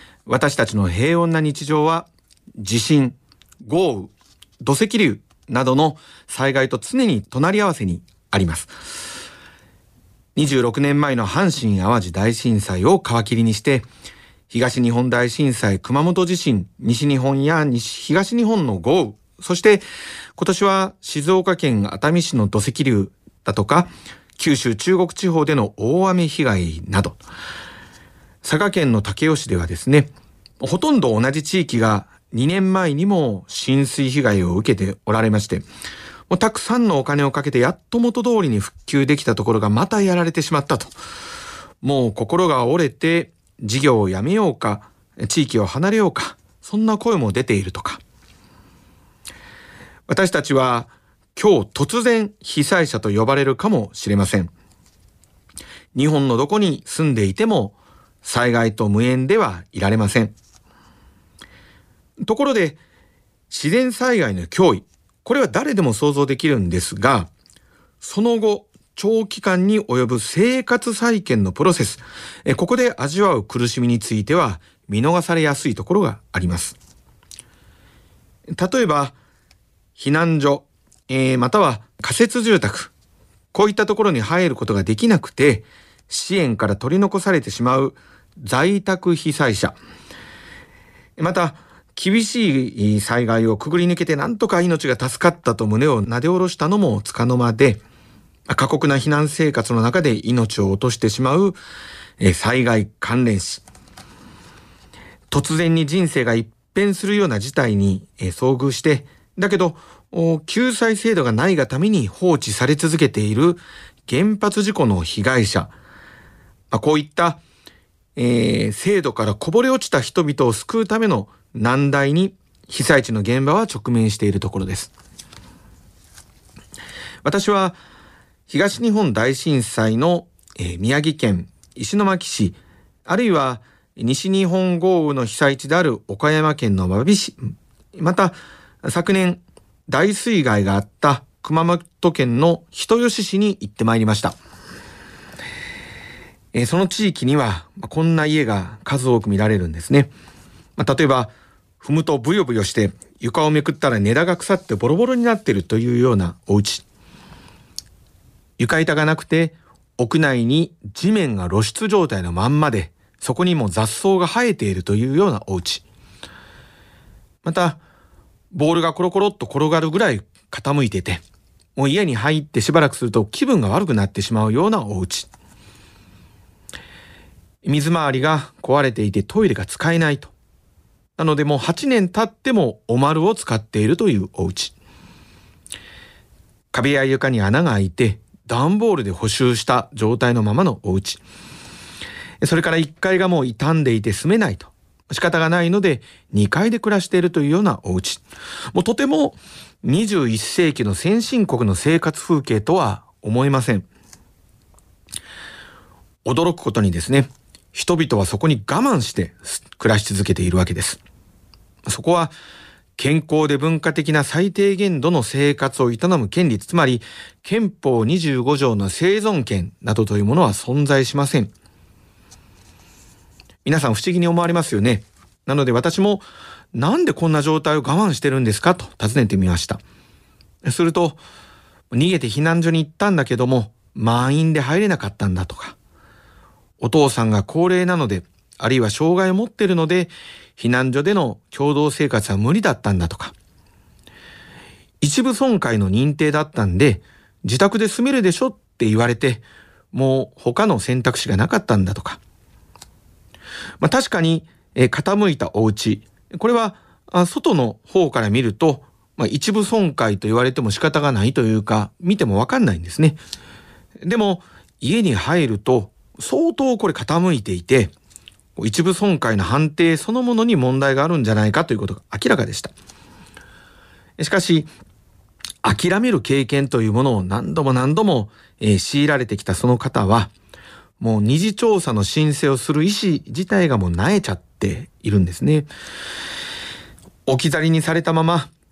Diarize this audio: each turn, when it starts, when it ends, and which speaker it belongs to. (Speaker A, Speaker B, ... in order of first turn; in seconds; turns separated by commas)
Speaker A: 0.3-8.7, Speaker A: 10.4-13.9, Speaker A: 14.5-19.8, Speaker A: 20.4-27.2, Speaker A: 28.4-35.7, Speaker A: 36.3-40.9, Speaker A: 41.8-48.0, Speaker A: 50.1-54.5, Speaker A: 55.9-60.3, Speaker A: 62.2-62.8, Speaker A: 63.5-67.3, Speaker A: 68.0-76.8, Speaker A: 78.5-79.2, Speaker A: 80.0-82.9, Speaker A: 83.5-89.8, Speaker A: 91.2-97.8, Speaker A: 98.5-101.6, Speaker A: 102.2-103.6, Speaker A: 105.3-115.7, Speaker A: 116.7-117.4, Speaker A: 118.2-124.9, Speaker A: 127.2-127.8, Speaker A: 128.5-144.4, Speaker A: 146.5-150.1, Speaker A: 150.8-156.8, Speaker A: 158.6-165.8, Speaker A: 167.4-167.8, Speaker A: 168.5-171.2, Speaker A: 171.8-175.3, Speaker A: 177.6-180.3, Speaker A: 181.2-184.7, Speaker A: 186.7-191.2, Speaker A: 192.4-198.2, Speaker A: 198.7-203.9, Speaker A: 206.2-211.0, Speaker A: 211.9-212.3, Speaker A: 213.0-221.5, Speaker A: 223.7-229.8, Speaker A: 230.6-231.2, Speaker A: 231.9-235.8, Speaker A: 236.8-243.3, Speaker A: 245.0-252.2, Speaker A: 253.8-263.2, Speaker A: 264.0-267.9, Speaker A: 268.6-272.7, Speaker A: 274.2-274.7, Speaker A: 275.6-280.3, Speaker A: 281.0-285.7, Speaker A: 287.3-288.5